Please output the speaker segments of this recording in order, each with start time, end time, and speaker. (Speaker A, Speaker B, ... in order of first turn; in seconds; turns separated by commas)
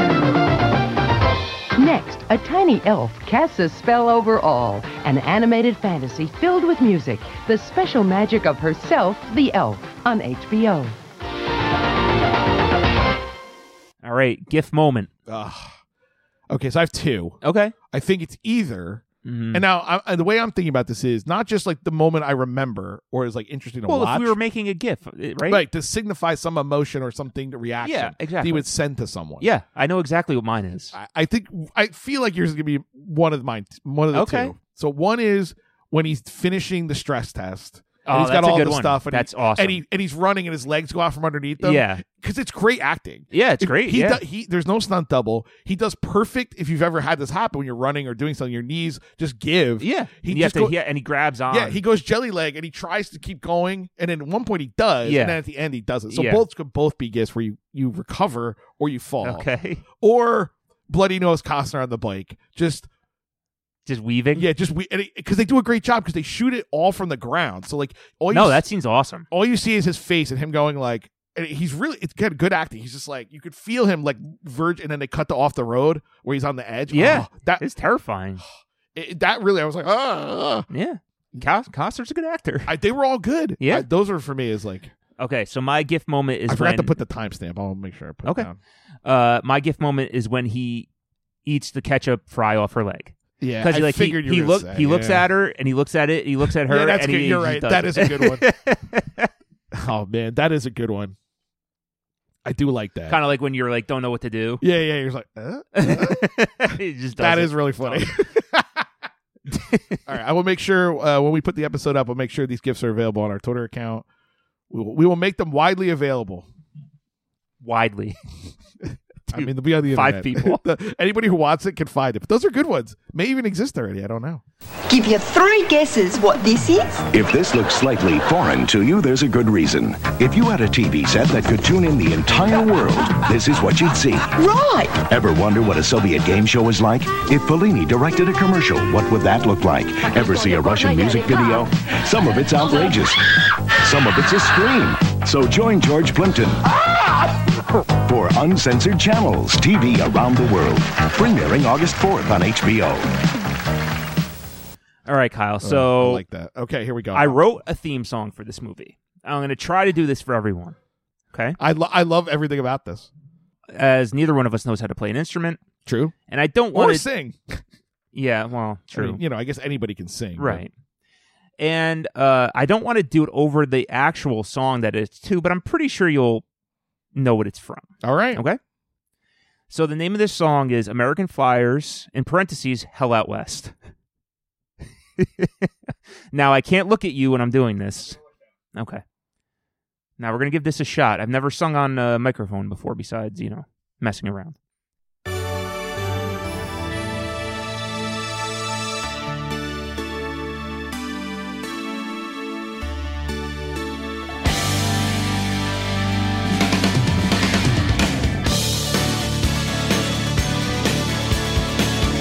Speaker A: 1.8-11.0, Speaker B: 14.0-15.1, Speaker C: 15.3-15.8, Speaker C: 16.5-24.4, Speaker B: 17.4-17.7, Speaker B: 19.2-19.6, Speaker B: 23.9-25.6, Speaker C: 25.4-29.5, Speaker B: 27.8-28.7, Speaker B: 29.4-30.9, Speaker C: 30.9-50.8, Speaker B: 34.1-34.5, Speaker B: 38.0-39.8, Speaker B: 41.6-42.0, Speaker B: 43.3-44.2, Speaker B: 49.8-51.8, Speaker C: 51.5-62.9, Speaker B: 55.0-55.4, Speaker B: 56.1-56.4, Speaker B: 59.2-59.8, Speaker B: 63.9-64.5, Speaker C: 64.3-68.6, Speaker B: 68.3-69.3, Speaker C: 69.3-77.6, Speaker B: 76.9-78.4, Speaker C: 78.9-80.7, Speaker B: 80.7-82.7, Speaker C: 82.7-84.9, Speaker B: 83.6-83.9, Speaker B: 85.2-87.0, Speaker C: 86.5-88.6, Speaker B: 89.0-90.9, Speaker B: 91.4-99.3, Speaker C: 93.4-95.3, Speaker C: 96.4-98.5, Speaker C: 99.7-101.1, Speaker C: 102.4-103.2, Speaker B: 103.1-104.6, Speaker C: 104.6-108.8, Speaker B: 105.7-108.1, Speaker B: 109.5-110.0, Speaker C: 110.0-114.0, Speaker C: 114.7-116.5, Speaker B: 117.6-118.2, Speaker B: 119.3-120.6, Speaker C: 119.3-124.4, Speaker D: 124.9-127.0, Speaker E: 127.1-134.3, Speaker D: 134.3-135.0, Speaker E: 135.0-143.2, Speaker E: 143.8-146.7, Speaker E: 147.9-153.1, Speaker B: 155.1-156.2, Speaker C: 155.6-157.4, Speaker B: 157.1-160.8, Speaker B: 161.3-161.6, Speaker C: 161.6-163.1, Speaker B: 163.7-165.6, Speaker C: 165.8-166.1, Speaker B: 166.3-167.1, Speaker C: 166.7-167.6, Speaker B: 168.1-169.2, Speaker C: 168.9-170.6, Speaker B: 170.4-170.7, Speaker B: 171.6-176.4, Speaker B: 177.1-178.6, Speaker C: 178.0-178.4, Speaker B: 179.7-183.7, Speaker B: 185.2-185.7, Speaker B: 186.3-188.2, Speaker B: 188.7-189.0, Speaker B: 190.2-194.6